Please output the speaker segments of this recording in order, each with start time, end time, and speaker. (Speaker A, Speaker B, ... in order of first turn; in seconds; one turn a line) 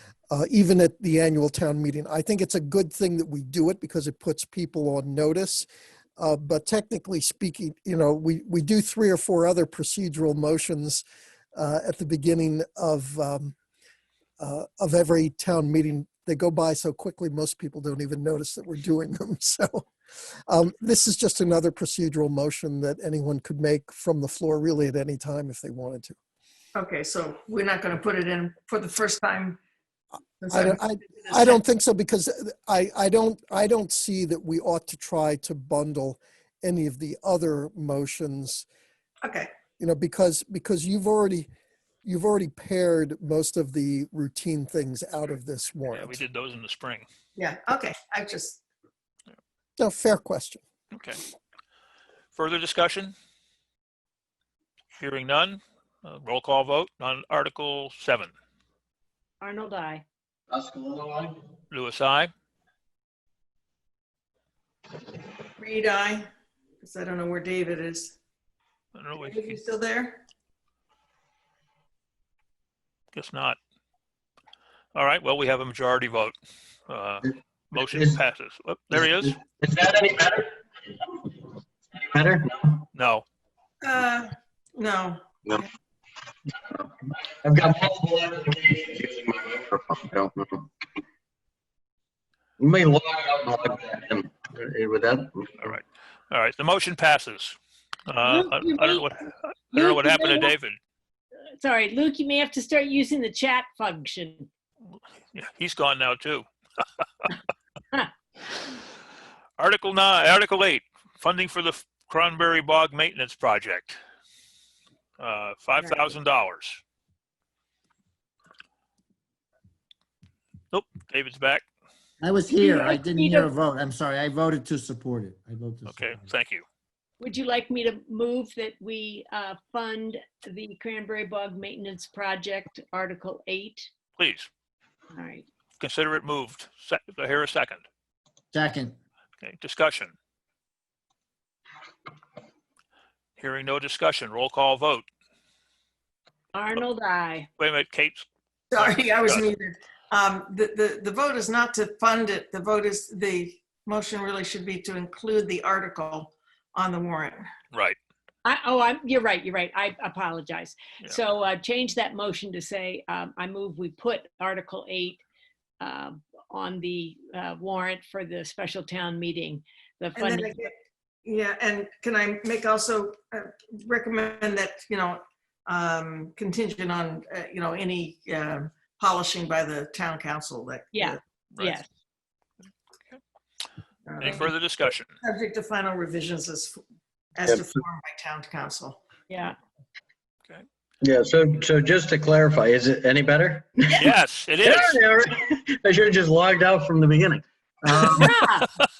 Speaker A: 0.3-5.7
Speaker A: 6.2-11.0
Speaker A: 11.6-13.6
Speaker A: 14.4-19.9
Speaker A: 20.5-26.2
Speaker B: 26.8-29.6
Speaker B: 30.4-31.6
Speaker A: 30.5-38.7
Speaker B: 39.2-39.5
Speaker A: 39.8-41.5
Speaker A: 42.0-46.2
Speaker C: 45.9-47.1
Speaker B: 47.4-48.6
Speaker A: 49.8-50.6
Speaker C: 50.9-51.2
Speaker C: 52.4-53.1
Speaker C: 55.0-58.3
Speaker D: 59.4-60.0
Speaker E: 60.5-61.4
Speaker C: 61.7-62.3
Speaker B: 65.6-66.3
Speaker B: 66.8-68.2
Speaker C: 69.0-69.5
Speaker B: 69.2-70.2
Speaker C: 73.1-73.6
Speaker C: 75.0-76.4
Speaker C: 76.9-79.4
Speaker E: 77.8-78.2
Speaker E: 79.0-82.9
Speaker C: 82.9-83.2
Speaker B: 83.8-85.2
Speaker E: 86.6-90.7
Speaker E: 92.6-95.7
Speaker C: 95.6-100.8
Speaker D: 98.2-99.1
Speaker D: 99.7-100.5
Speaker D: 101.6-104.5
Speaker C: 105.3-106.5
Speaker C: 109.6-114.0
Speaker C: 115.2-116.8
Speaker D: 115.8-116.1
Speaker C: 120.7-121.6
Speaker F: 122.2-126.2
Speaker D: 122.5-123.5
Speaker C: 125.9-126.7
Speaker D: 127.2-133.9
Speaker C: 134.2-134.5
Speaker D: 135.2-135.5
Speaker C: 135.8-137.8
Speaker F: 138.5-139.0
Speaker C: 139.4-140.1
Speaker C: 143.4-145.1
Speaker D: 146.5-147.5
Speaker C: 147.6-149.4
Speaker B: 148.7-157.5
Speaker C: 157.7-158.0
Speaker D: 158.4-165.2
Speaker D: 165.8-170.7
Speaker B: 170.2-170.7
Speaker B: 171.2-181.2
Speaker D: 180.9-181.9
Speaker C: 181.5-181.8
Speaker B: 184.1-184.5
Speaker C: 184.2-185.1
Speaker B: 185.2-186.8
Speaker B: 187.4-189.0
Speaker D: 189.3-189.6
Speaker E: 191.0-194.1
Speaker C: 193.9-195.0
Speaker E: 194.6-198.3
Speaker D: 198.1-198.7